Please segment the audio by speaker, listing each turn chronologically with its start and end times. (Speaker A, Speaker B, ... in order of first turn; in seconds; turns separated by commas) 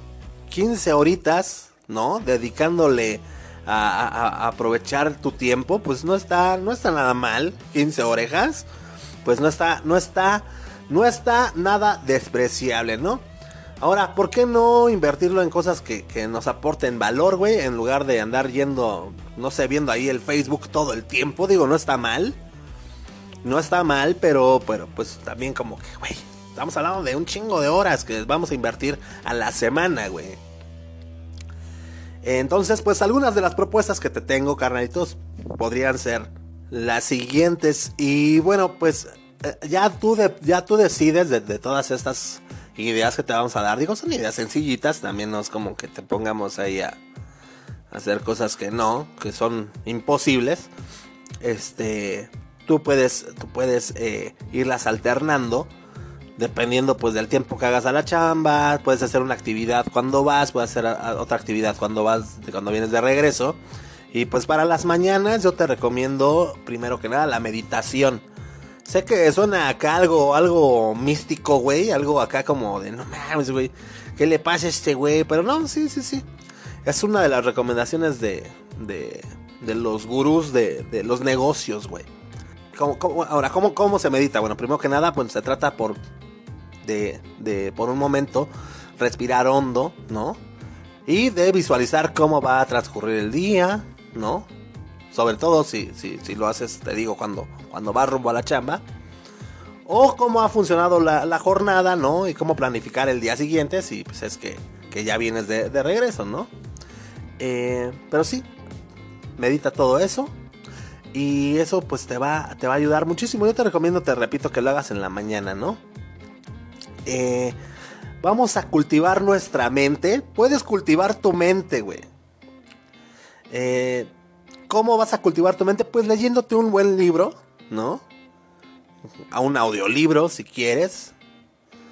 Speaker A: 0.5-8.7, Speaker A: 9.2-13.2, Speaker A: 13.8-22.4, Speaker A: 23.4-30.4, Speaker A: 32.2-47.0, Speaker A: 47.9-50.7, Speaker A: 51.4-55.7, Speaker A: 56.4-63.6, Speaker A: 64.1-68.2, Speaker A: 68.8-76.3, Speaker A: 76.8-82.1, Speaker A: 82.7-86.0, Speaker A: 86.8-90.4, Speaker A: 91.1-94.5, Speaker A: 95.1-98.8, Speaker A: 99.9-106.5, Speaker A: 107.4-108.5, Speaker A: 109.4-110.3, Speaker A: 111.1-115.8, Speaker A: 117.1-117.6, Speaker A: 118.2-122.1, Speaker A: 123.5-124.1, Speaker A: 124.7-128.0, Speaker A: 129.3-131.1